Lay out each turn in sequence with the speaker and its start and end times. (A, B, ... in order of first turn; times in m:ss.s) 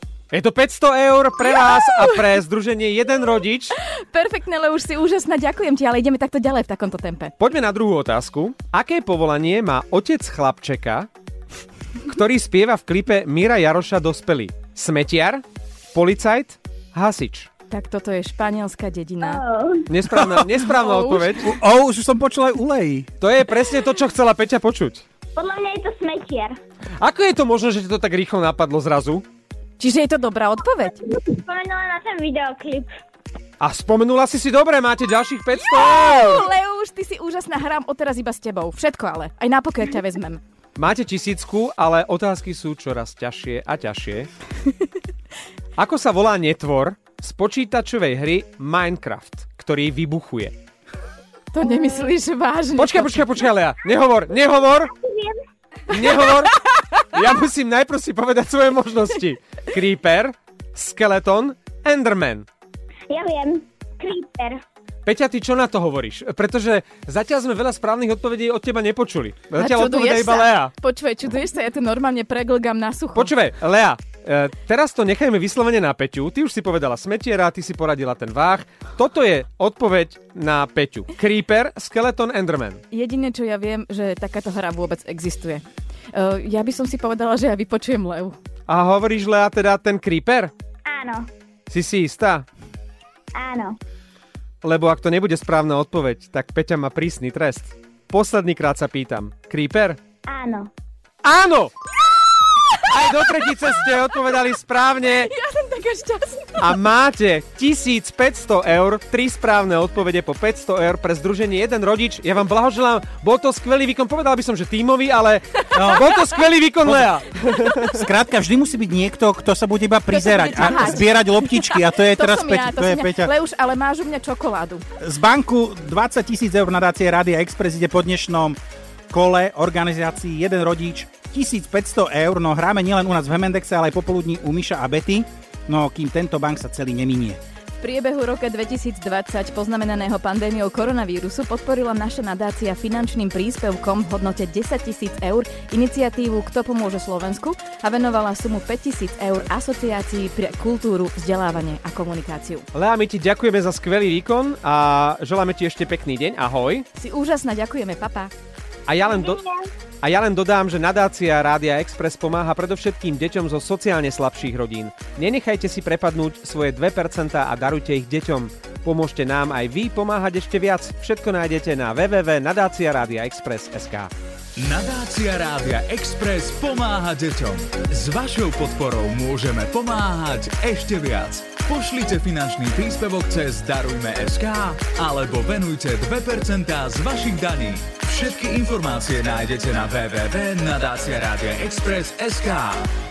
0:00.3-0:03.7 A
0:01.4-0:02.3 B
0:04.0-0:07.3 B
0:07.4-0:11.1 A
0:12.0-0:17.5 A
0:17.7-0:19.4 B
0:19.2-0:19.9 C
0:19.9-0:21.5 A
0:20.6-0:21.3 B
0:21.4-0:23.1 D
0:23.2-0:25.0 A
0:25.4-0:26.6 C
0:27.0-0:29.2 A
0:29.8-0:31.0 B
0:30.9-0:32.9 C
0:33.6-0:36.5 A
0:35.8-0:40.4 B
0:40.8-0:44.3 A
0:45.8-0:50.6 A
0:51.5-0:53.2 B
0:52.8-0:54.9 A
0:54.9-0:55.4 C
0:55.9-0:56.6 A
0:57.1-1:02.5 A
1:03.1-1:04.6 C
1:05.0-1:10.7 A
1:09.6-1:13.3 B
1:13.1-1:22.8 A
1:22.9-1:28.4 B
1:28.7-1:30.5 A
1:30.9-1:31.3 C
1:31.7-1:32.4 A
1:33.3-1:33.8 C
1:34.6-1:40.0 A
1:40.3-1:40.7 C
1:41.2-1:41.7 A
1:42.8-1:45.3 A
1:45.1-1:46.7 B
1:46.6-1:58.0 A
1:55.7-1:56.1 D
1:57.9-2:03.3 D
2:00.1-2:04.8 B
2:05.0-2:08.6 D
2:09.1-2:17.4 D
2:17.8-2:32.6 B
2:32.7-2:36.8 A
2:37.0-2:38.3 B
2:38.9-2:39.4 A
2:39.0-2:39.7 C
2:40.0-2:54.1 A
2:54.6-3:12.8 E